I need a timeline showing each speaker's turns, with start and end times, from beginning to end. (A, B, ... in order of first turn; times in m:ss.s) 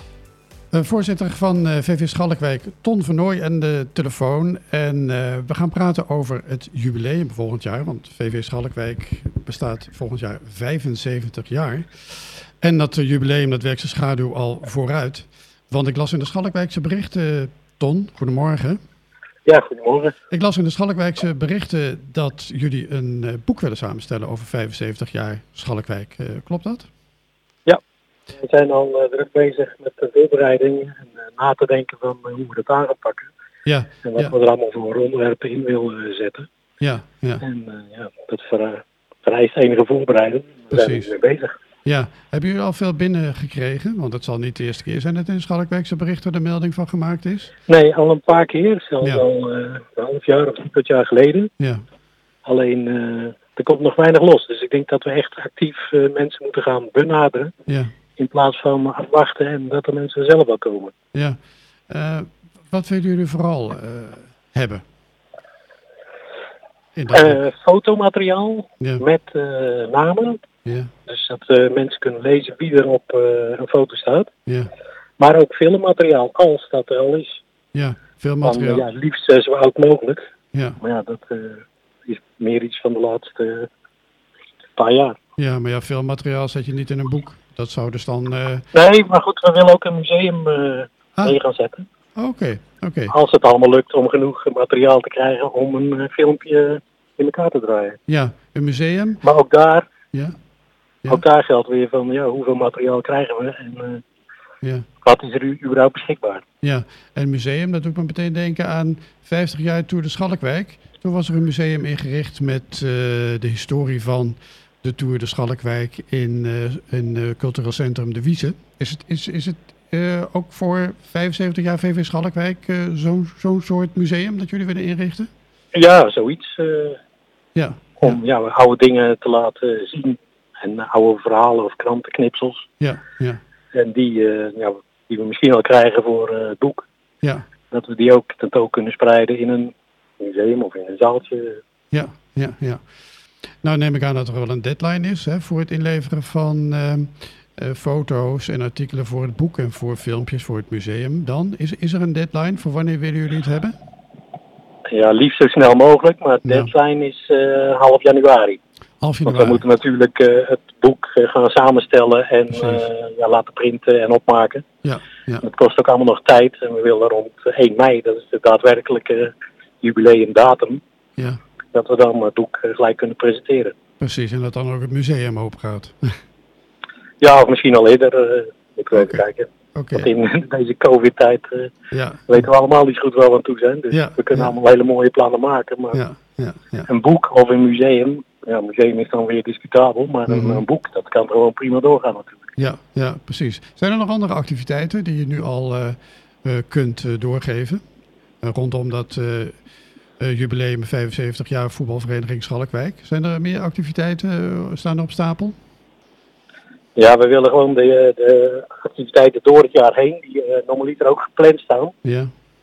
0:00.7-0:18.8 A
0:19.4-0:20.1 B
0:20.3-0:26.9 A
0:28.4-0:33.3 B
0:33.6-0:34.3 A
0:34.0-0:36.5 B
0:36.8-0:37.4 A
0:37.4-0:41.5 B
0:40.7-0:41.1 A
0:41.8-0:47.5 A
0:47.7-0:51.5 B
0:52.4-0:57.5 B
0:57.7-0:57.9 A
0:58.2-1:00.9 B
1:01.1-1:04.8 A
1:07.0-1:07.4 A
1:07.1-1:10.4 B
1:10.6-1:10.9 A
1:11.1-1:14.3 B
1:15.2-1:17.4 B
1:17.7-1:18.9 A
1:18.4-1:20.2 B
1:20.5-1:20.8 A
1:20.8-1:23.7 B
1:24.8-1:25.2 B
1:25.4-1:28.7 A
1:28.7-1:31.9 B
1:32.2-1:33.1 A
1:33.1-1:38.0 B
1:38.1-1:39.2 A
1:39.2-1:39.9 B
1:41.1-1:44.0 B
1:45.0-1:46.4 B
1:46.6-2:05.3 A
2:05.7-2:07.0 B
2:07.6-2:08.2 A
2:08.0-2:12.6 B
2:12.8-2:13.4 A
2:13.7-2:16.9 B
2:17.7-2:21.6 B
2:21.9-2:22.8 A
2:23.6-2:33.8 A
2:34.9-2:38.6 B
2:36.4-2:36.7 A
2:39.0-2:39.6 A
2:39.2-2:44.6 B
2:42.6-2:42.8 A
2:44.8-2:45.4 A
2:45.4-2:50.8 B
2:51.7-2:53.7 B
2:54.0-2:56.1 A
2:57.2-3:01.7 B
2:59.0-2:59.2 A
2:59.8-3:00.1 A
3:01.9-3:02.5 A
3:02.3-3:06.0 B
3:03.9-3:04.5 A
3:05.9-3:06.9 A
3:06.9-3:12.6 B
3:10.3-3:10.6 A
3:12.6-3:17.8 A
3:18.4-3:19.6 A
3:20.2-3:25.6 A
3:27.0-3:32.0 B
3:32.0-3:32.3 A